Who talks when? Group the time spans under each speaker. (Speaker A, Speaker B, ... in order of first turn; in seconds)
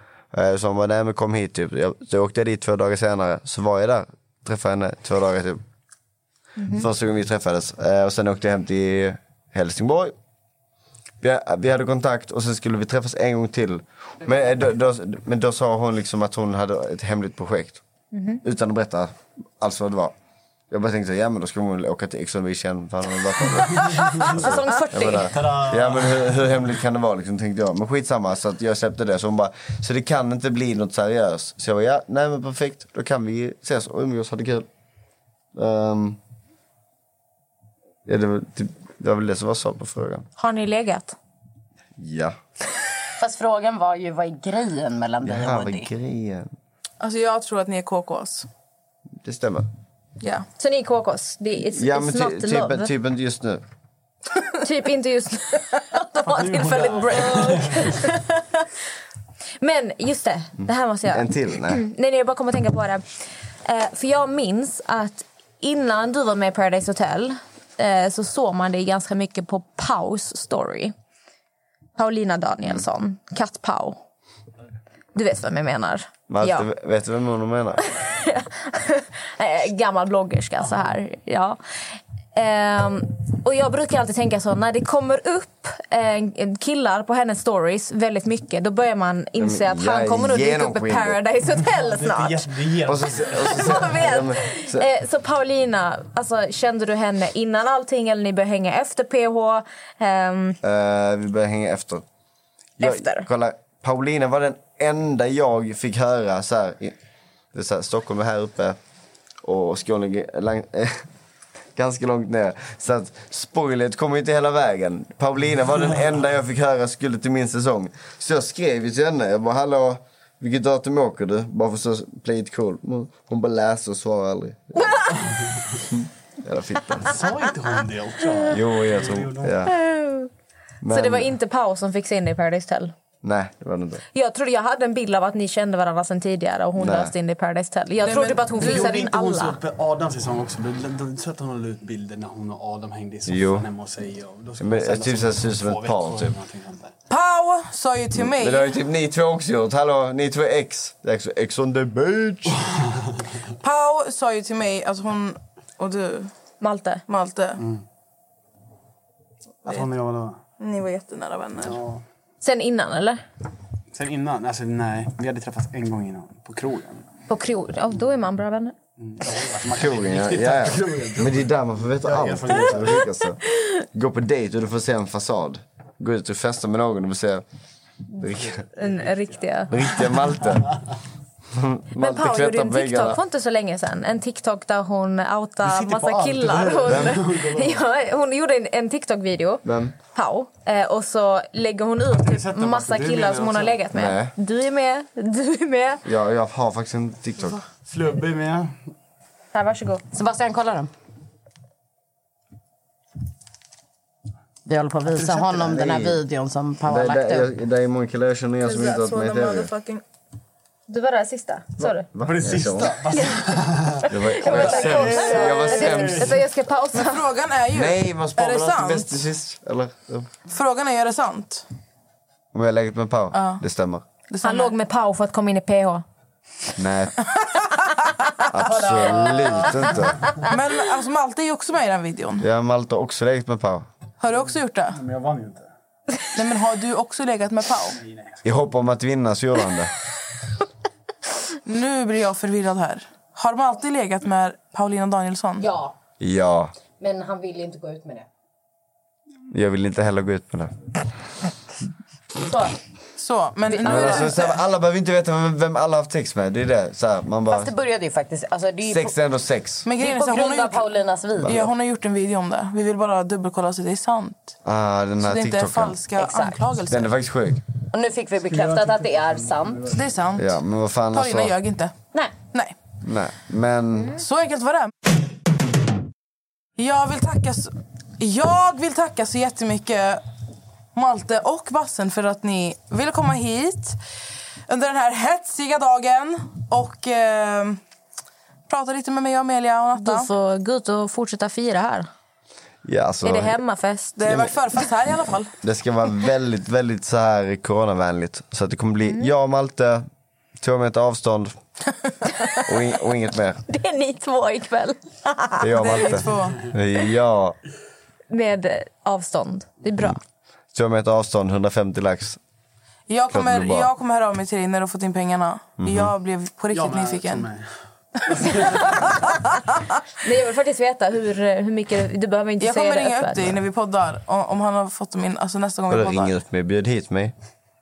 Speaker A: 0.3-5.6, 6.7-10.1, 11.2-17.8, 18.4-20.1, 20.7-34.7, 35.5-36.2, 38.1-40.3, 42.0-42.4, 45.2-46.5, 49.2-49.7, 51.8-53.6, 61.1-61.8, 76.3-77.8, 89.4-91.2, 92.8-94.9, 100.6-102.0, 102.8-107.0, 107.5-108.8, 109.4-111.1, 111.8-124.9, 126.0-127.1, 128.5-129.7, 130.8-131.3, 133.2-134.0, 136.8-137.1, 143.3-143.7, 144.6-146.3, 148.2-152.7, 169.7-173.4, 173.9-177.4, 178.2-178.6, 179.7-180.8, 181.5-183.2, 186.9-187.2, 189.7-189.9, 193.9-194.3, 196.1-197.6, 205.5-206.2, 206.8-209.7, 211.8-213.0, 214.1-216.4, 217.7-220.3, 222.5-224.0, 226.8-227.2, 228.5-230.2, 232.4-233.9, 238.4-239.9, 246.2-246.7, 249.5-250.7, 253.8-257.7, 258.9-259.9, 261.4-261.7, 264.6-266.0, 266.9-267.6, 270.4-271.6, 273.0-274.2, 292.8-293.6, 294.3-294.5, 295.6-300.1, 300.6-301.6, 302.6-303.6, 305.6-307.6, 310.7-312.4, 313.3-313.9, 315.8-316.1, 325.9-327.3
Speaker B: 18.1-18.4, 40.4-41.2, 50.6-52.9, 54.6-58.7, 59.6-63.1, 63.6-70.9, 72.0-74.0, 75.2-76.7, 78.0-81.6, 82.3-92.5, 93.2-100.6, 102.8-103.3, 129.7-130.3, 130.9-132.9, 134.1-139.6, 156.6-157.0, 162.4-163.2, 167.3-168.7, 178.8-179.7, 182.0-196.0, 199.5-200.0, 210.9-212.1, 214.1-217.2, 224.4-226.1, 290.0-292.1, 293.2-294.2, 303.7-305.7, 308.3-310.2, 320.2-323.4
Speaker C: 24.2-25.3, 43.2-45.9, 200.1-200.9, 204.7-207.5, 245.6-245.9, 247.0-248.3, 252.4-252.8, 257.5-259.1, 260.0-261.6, 266.2-266.6, 267.9-270.0
Speaker D: 25.3-26.4, 56.2-57.9, 91.8-93.8, 127.1-129.6, 138.6-146.9, 159.7-160.4, 161.6-162.0, 163.9-167.1, 169.0-173.0, 178.8-179.3, 185.6-187.8, 192.2-193.8, 197.8-198.8, 212.2-216.3, 228.6-230.0, 234.9-235.7, 238.0-238.5, 268.5-269.9, 316.7-317.7, 318.3-318.9
Speaker E: 47.0-48.5, 50.2-50.5, 138.0-138.9, 147.1-148.7, 153.6-156.3, 157.1-157.6, 160.6-161.8, 208.7-210.0, 215.1-215.9, 216.9-219.2, 220.5-221.7, 223.3-223.6, 224.3-224.7, 230.5-232.4, 234.2-235.0, 236.3-238.0, 241.7-245.7, 253.2-254.5, 259.9-260.9, 261.4-264.6, 265.2-267.1, 269.9-270.5, 271.1-271.9, 272.4-272.8, 274.1-274.9, 276.8-280.2, 280.9-284.0, 284.7-287.8, 288.7-290.3, 294.2-295.5, 305.7-306.6, 313.1-317.5, 322.6-326.4